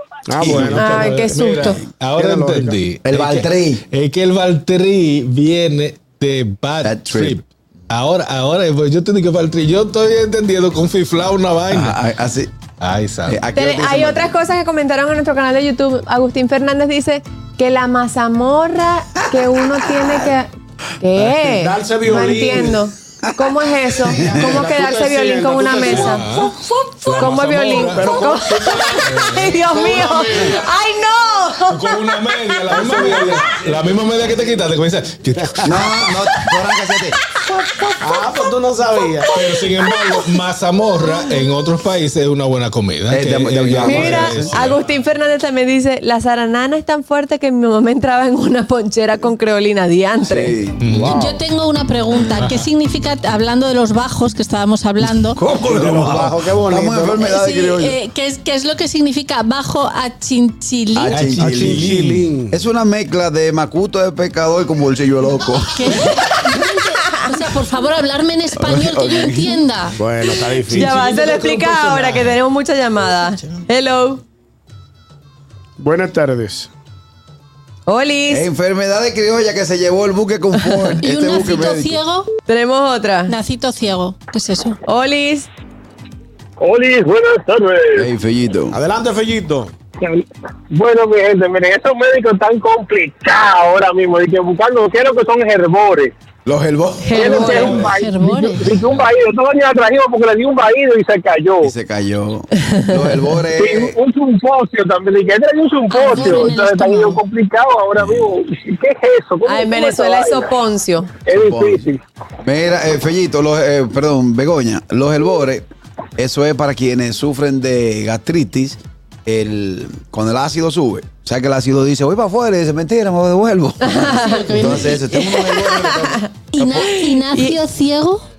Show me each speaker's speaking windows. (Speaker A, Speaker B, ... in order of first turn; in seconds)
Speaker A: 0.3-1.4, 2.1-2.8, 21.2-22.8, 24.2-26.2, 27.9-30.6, 32.8-33.4, 38.0-39.4, 55.5-57.2, 61.4-62.6, 69.9-72.2, 75.8-76.7, 88.7-89.7
Speaker B: 0.4-0.8, 3.0-3.8, 6.8-7.4, 11.7-12.5, 13.3-14.3, 19.4-20.2, 24.0-24.6, 35.6-37.2, 43.1-44.5, 50.2-51.2, 55.4-58.0, 60.9-61.9, 62.5-66.2, 68.5-69.6, 78.3-82.0, 87.9-88.8, 96.4-97.8, 101.6-103.9, 111.3-111.8, 112.4-115.7, 116.2-126.9
Speaker C: 0.4-12.0, 12.8-13.4, 25.8-28.4, 29.0-29.6, 31.7-36.1, 39.3-44.8, 50.8-51.1, 61.1-62.2, 72.0-72.3
Speaker D: 0.8-1.8, 13.5-20.5, 21.0-33.4, 43.8-50.5, 70.7-74.2, 77.9-78.5, 82.5-83.3, 84.8-85.5, 97.0-97.9, 109.5-111.1, 123.8-126.3, 126.8-127.6
Speaker E: 51.1-55.4, 57.2-61.2, 65.7-70.0, 81.0-82.3, 83.3-84.8, 97.3-98.7, 105.9-107.2, 124.0-125.0, 126.5-128.2
Speaker F: 86.6-88.1, 90.0-96.1, 97.2-101.7, 103.5-110.5, 111.2-112.0